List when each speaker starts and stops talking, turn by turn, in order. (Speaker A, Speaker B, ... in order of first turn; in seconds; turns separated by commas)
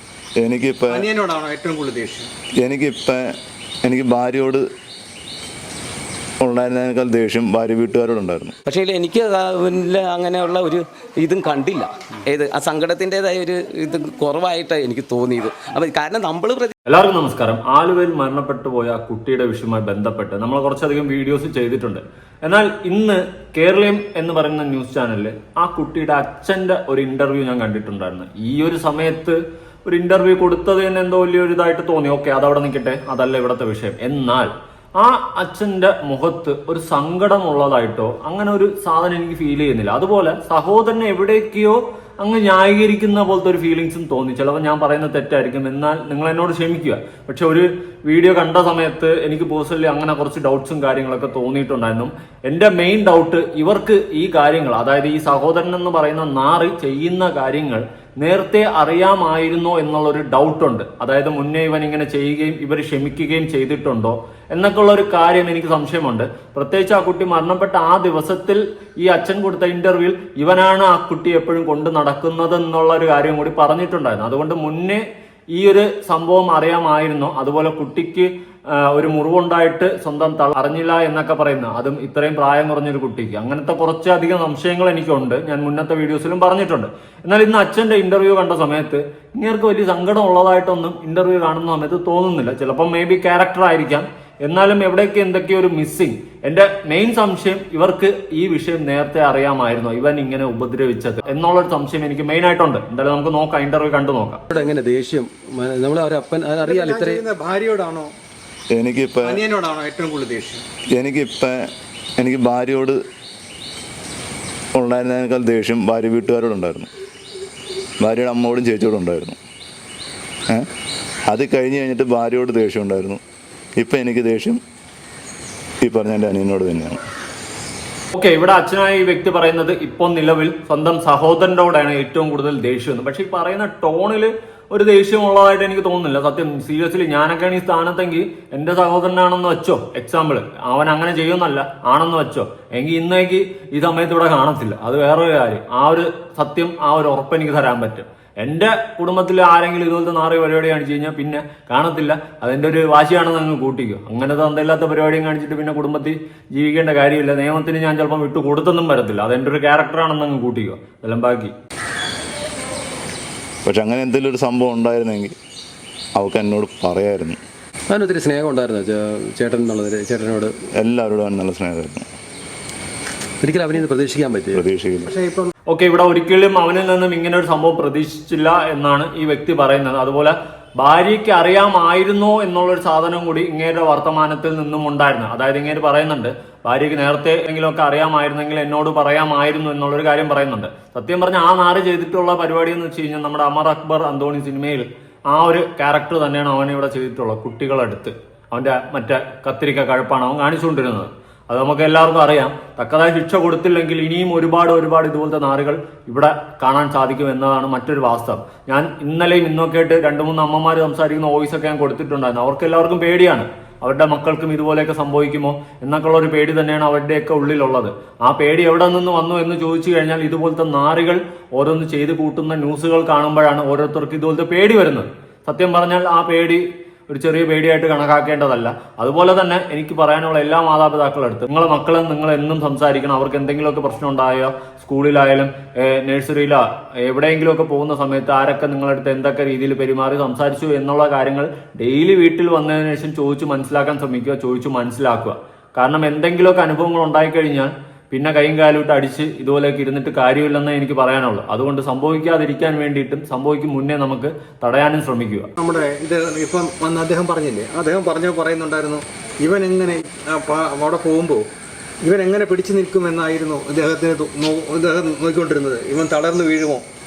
Speaker A: 0.4-1.1, Speaker B: 0.9-2.3, Speaker A: 2.6-3.3, Speaker A: 3.8-4.6, Speaker A: 6.4-8.5, Speaker C: 8.7-16.7, Speaker D: 16.9-75.0, Speaker D: 75.5-104.4, Speaker E: 104.5-107.2, Speaker B: 106.6-108.1, Speaker A: 108.7-109.4, Speaker B: 109.2-110.6, Speaker A: 110.9-111.7, Speaker A: 112.2-113.0, Speaker A: 114.7-116.9, Speaker A: 118.0-119.4, Speaker A: 121.3-123.2, Speaker A: 123.8-124.6, Speaker A: 125.8-127.0, Speaker D: 128.1-161.5, Speaker A: 163.6-165.3, Speaker A: 166.2-167.4, Speaker E: 167.9-170.5, Speaker A: 170.8-172.0, Speaker E: 173.4-174.6, Speaker A: 174.5-175.1, Speaker B: 175.1-175.5, Speaker D: 175.7-255.5, Speaker B: 255.6-261.4, Speaker B: 262.0-266.8